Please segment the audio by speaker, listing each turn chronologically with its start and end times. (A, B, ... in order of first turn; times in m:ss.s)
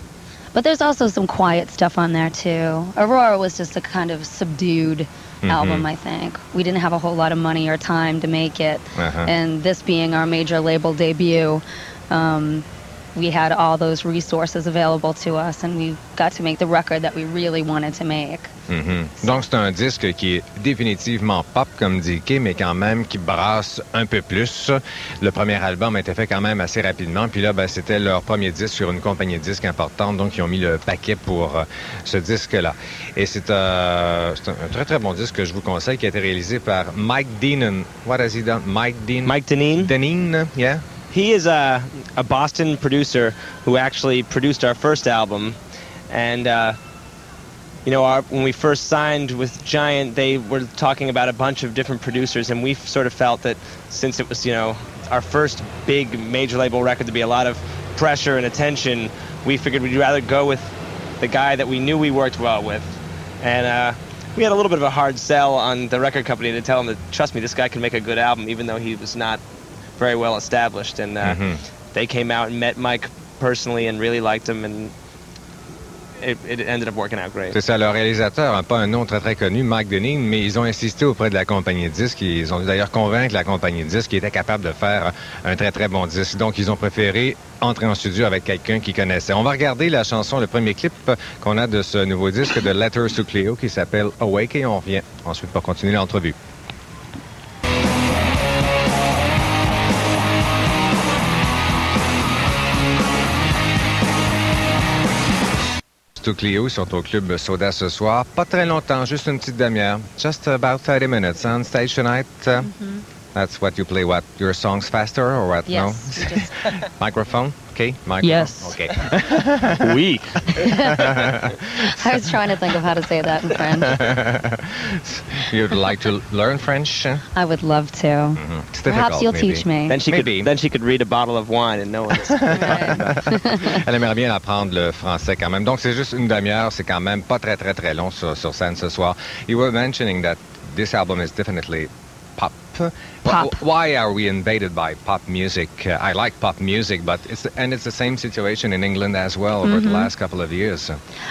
0:00.5-0:18.5 A
0:05.4-0:05.9 B
0:09.0-0:09.3 B
0:18.7-0:40.8 B
0:39.2-0:39.9 C
0:41.1-0:45.6 C
0:46.1-0:46.8 C
0:47.8-1:09.4 C
1:10.0-1:11.4 C
1:11.2-1:11.6 B
1:11.9-1:14.9 C
1:16.2-1:17.6 C
1:17.5-1:36.4 B
1:46.2-1:52.7 B
1:52.6-1:53.0 A
1:53.3-1:59.9 B
1:55.7-1:56.8 A
1:58.2-1:58.8 A
1:59.0-2:01.3 C
2:00.5-2:01.3 A
2:01.0-2:01.4 B
2:01.8-2:04.0 A
2:03.9-2:07.2 B
2:07.3-2:10.0 A
2:08.4-2:10.5 B
2:09.9-2:13.2 C
2:12.5-2:13.8 A
2:12.5-2:31.0 B
2:23.2-2:23.6 A
2:29.6-2:30.1 A